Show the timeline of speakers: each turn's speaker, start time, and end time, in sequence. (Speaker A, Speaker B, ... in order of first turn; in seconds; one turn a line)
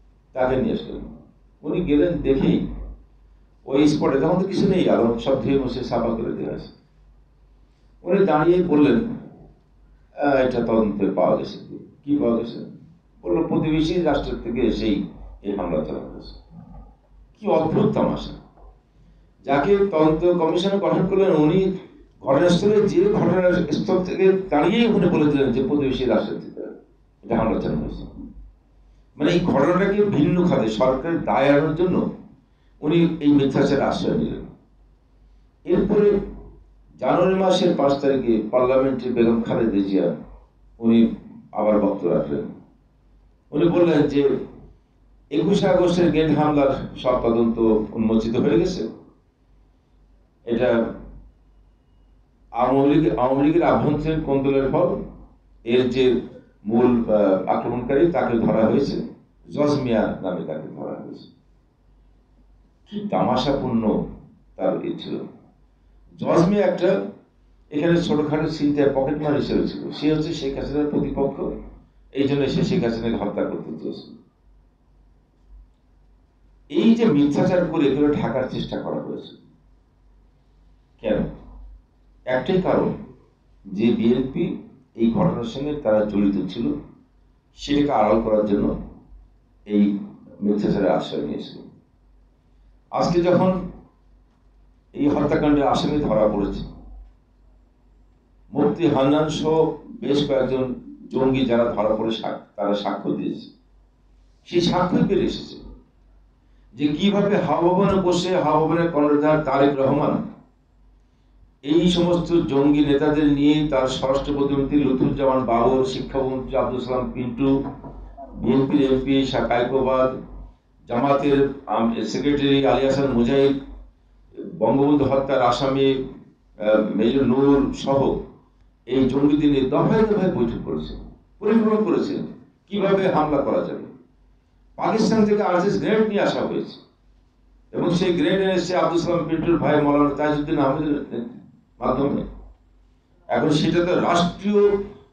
Speaker A: 0.3-1.0
Speaker A: 1.6-2.6
Speaker A: 3.6-6.7
Speaker A: 8.0-9.0
Speaker A: 10.2-12.7
Speaker A: 13.2-16.4
Speaker A: 17.3-18.3
Speaker A: 19.4-26.7
Speaker A: 27.2-28.1
Speaker A: 29.2-32.0
Speaker A: 32.8-34.4
Speaker A: 35.7-36.1
Speaker A: 37.0-40.1
Speaker A: 40.8-42.5
Speaker A: 43.5-44.2
Speaker A: 45.3-48.8
Speaker A: 50.4-50.8
Speaker A: 52.5-55.0
Speaker A: 55.6-56.1
Speaker A: 56.6-59.0
Speaker A: 59.5-61.3
Speaker A: 62.9-64.0
Speaker A: 64.5-65.2
Speaker A: 66.2-66.9
Speaker A: 67.7-71.5
Speaker A: 72.1-74.1
Speaker A: 76.7-79.4
Speaker A: 81.0-81.3
Speaker A: 82.3-82.9
Speaker A: 83.7-86.7
Speaker A: 87.5-88.7
Speaker A: 89.7-91.6
Speaker A: 92.9-93.6
Speaker A: 94.9-96.7
Speaker A: 98.5-103.5
Speaker A: 104.5-105.6
Speaker A: 106.7-110.2
Speaker A: 111.6-117.6
Speaker A: 118.3-120.1
Speaker A: 120.8-123.5
Speaker A: 124.4-126.0
Speaker A: 126.6-128.2
Speaker A: 128.9-133.9
Speaker A: 134.8-136.8
Speaker A: 137.7-142.2
Speaker A: 143.3-144.7